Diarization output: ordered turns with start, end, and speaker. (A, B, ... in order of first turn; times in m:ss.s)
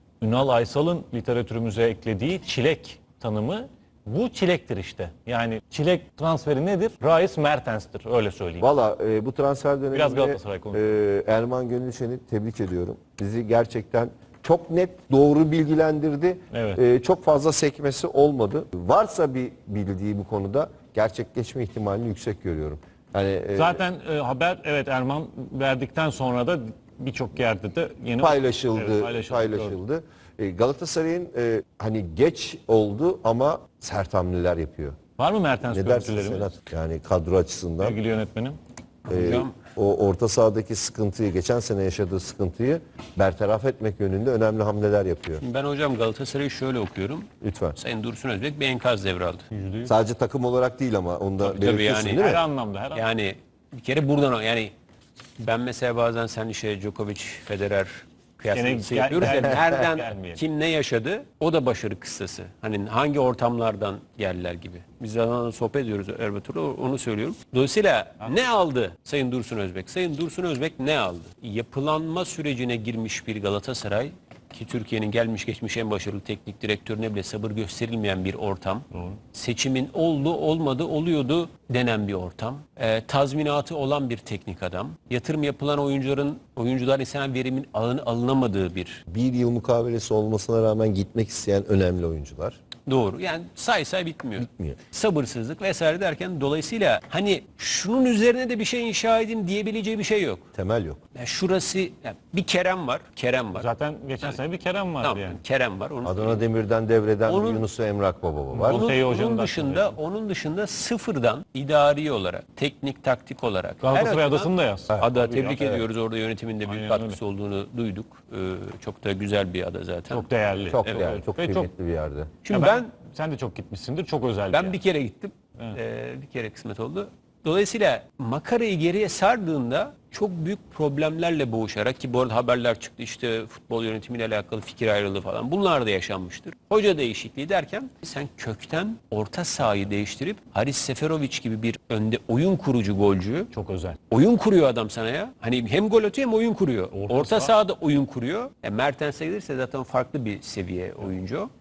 0:00.2-0:08.7 A
0:08.6-0:23.8 B
0:09.9-0:10.8 A
0:16.5-0:16.8 A
0:23.6-0:29.8 A
0:28.2-0:35.0 B
0:35.2-0:36.5 A
0:35.7-0:38.0 B
0:37.8-0:38.6 A
0:39.1-0:45.4 B
0:39.1-0:39.5 C
0:45.4-0:49.4 C
0:47.4-0:47.8 B
0:49.5-0:49.9 A
0:49.8-0:52.4 B
0:51.4-0:53.0 A
0:51.6-0:52.4 C
0:52.9-0:54.7 C
0:55.4-1:29.0 C
0:58.5-1:00.4 A
1:29.1-1:32.6 B
1:32.9-1:40.4 C
1:34.4-1:34.8 B
1:40.5-1:41.0 B
1:41.1-1:43.7 C
1:43.5-1:45.4 A
1:45.0-1:46.4 C
1:46.0-1:48.8 B
1:47.3-1:47.6 C
1:48.5-1:50.0 A
1:48.6-2:00.3 C
1:53.8-1:55.8 A
1:56.6-1:57.2 A
2:00.1-2:01.7 A
2:00.7-2:02.4 B
2:00.8-2:01.1 C
2:02.4-2:02.9 C
2:02.5-2:04.8 A
2:04.5-2:23.5 C
2:23.5-2:24.0 A
2:24.1-2:31.5 C
2:26.9-2:27.5 A